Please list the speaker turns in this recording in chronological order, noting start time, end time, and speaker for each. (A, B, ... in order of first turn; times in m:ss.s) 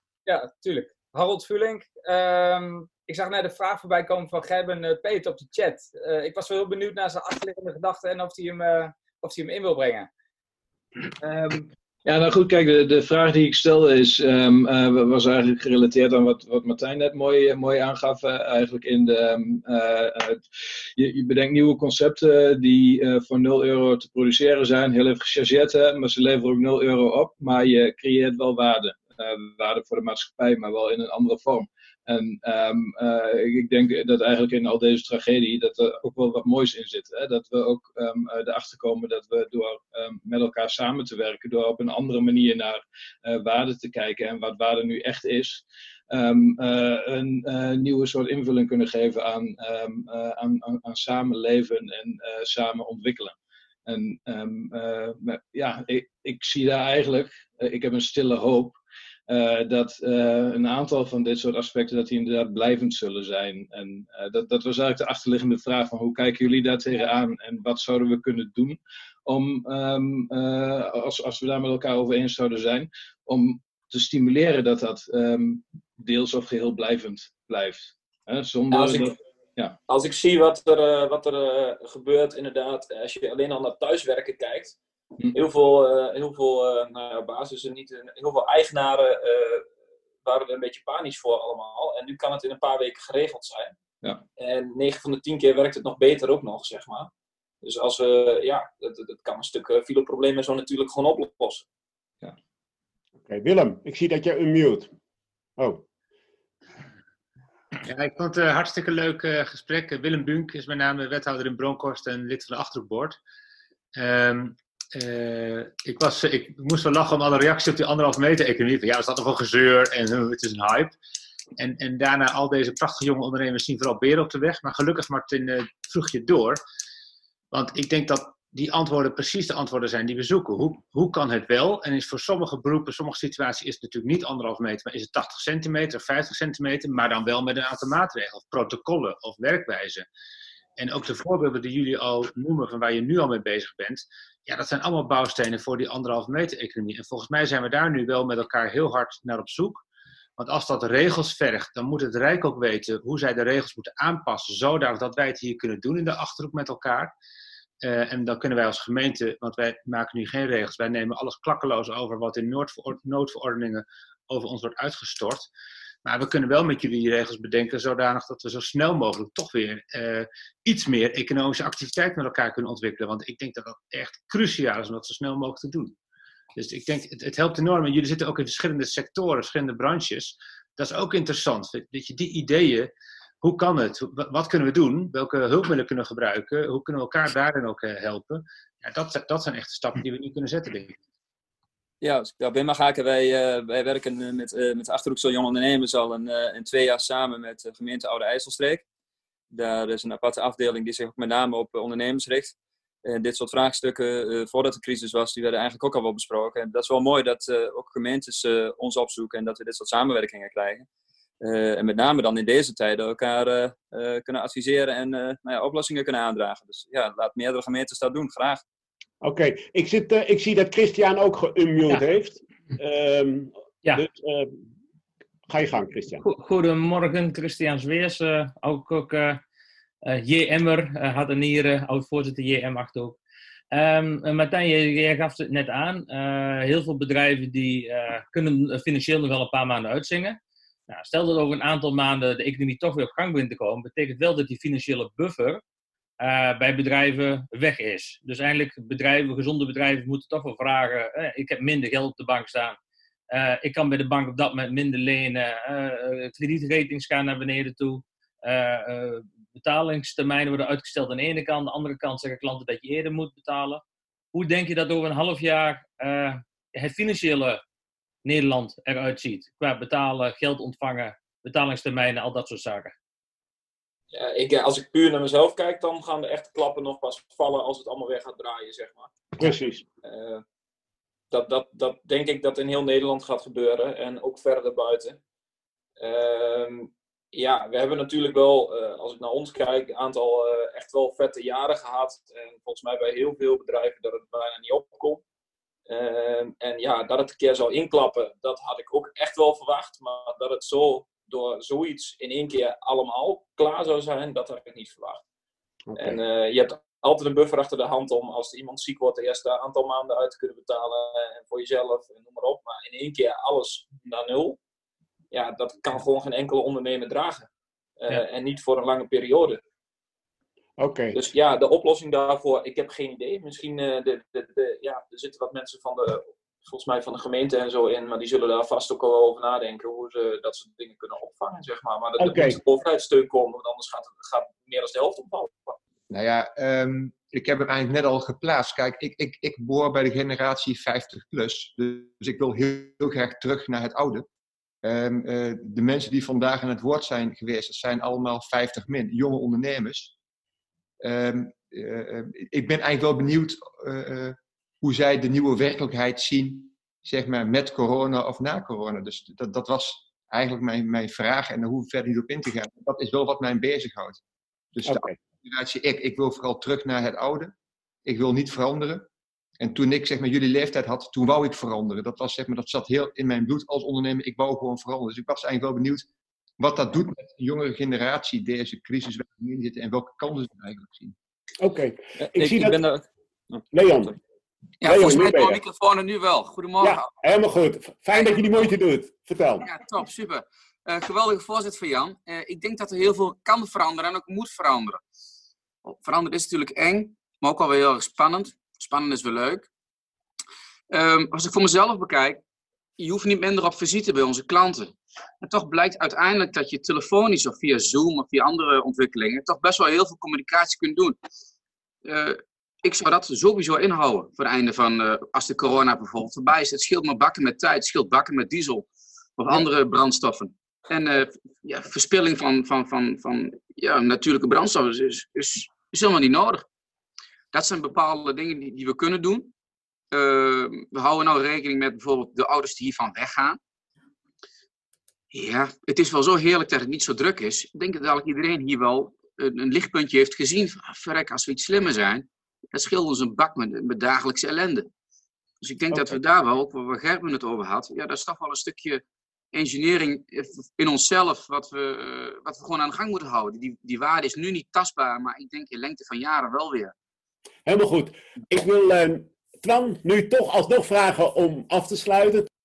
0:00.3-0:10.1 A
0:11.2-0:11.6 A
0:12.0-0:20.4 B
0:21.0-1:19.8 B
1:18.7-1:19.1 C
1:19.9-1:24.8 C
1:25.3-1:29.7 C
1:30.2-1:33.8 C
1:34.4-1:37.1 C
1:37.6-1:41.6 C
1:43.3-1:44.9 D
1:45.6-1:45.8 D
1:47.8-1:53.2 E
1:54.0-2:01.0 E
2:01.6-2:06.6 E
2:07.5-2:20.1 E
2:20.8-2:29.8 E
2:30.4-2:37.1 E
2:37.8-2:45.5 E
2:46.0-2:56.0 E
2:56.6-3:11.0 E
3:12.0-3:18.8 F
3:19.5-3:22.6 F
3:23.1-3:30.9 F
3:31.4-3:38.6 F
3:39.2-3:44.6 D
3:45.5-3:46.2 D
3:46.2-3:49.4 G
3:50.0-3:53.2 G
3:53.7-4:05.6 G
4:06.2-4:12.8 G
4:13.3-4:23.8 G
4:24.3-4:27.6 G
4:28.2-4:32.9 G
4:34.1-4:39.1 C
4:39.4-4:39.8 D
4:40.0-4:40.4 C
4:41.3-4:45.2 C
4:46.0-4:55.2 C
4:55.9-5:05.2 C
5:05.9-5:06.2 D
5:06.0-5:14.6 C
5:15.3-5:19.6 C
5:20.8-5:21.2 D
5:21.1-5:35.8 C
5:32.2-5:32.6 D
5:36.1-5:44.3 H
5:44.8-5:50.1 H
5:51.0-6:07.5 H
6:04.9-6:05.1 D
6:08.0-6:09.1 H
6:09.6-6:21.1 H
6:21.6-6:22.8 D
6:22.2-6:24.1 F
6:23.7-6:24.1 D
6:24.8-6:27.1 I
6:24.8-6:25.6 D
6:26.8-6:29.6 D
6:28.1-6:28.4 I
6:29.6-6:35.0 I
6:35.8-6:39.7 I
6:40.9-6:42.4 I
6:43.0-6:51.2 I
6:52.0-7:06.6 I
7:07.5-7:09.5 I
7:10.1-7:13.6 I
7:15.3-7:24.9 I
7:25.6-7:36.9 I
7:37.6-7:42.5 D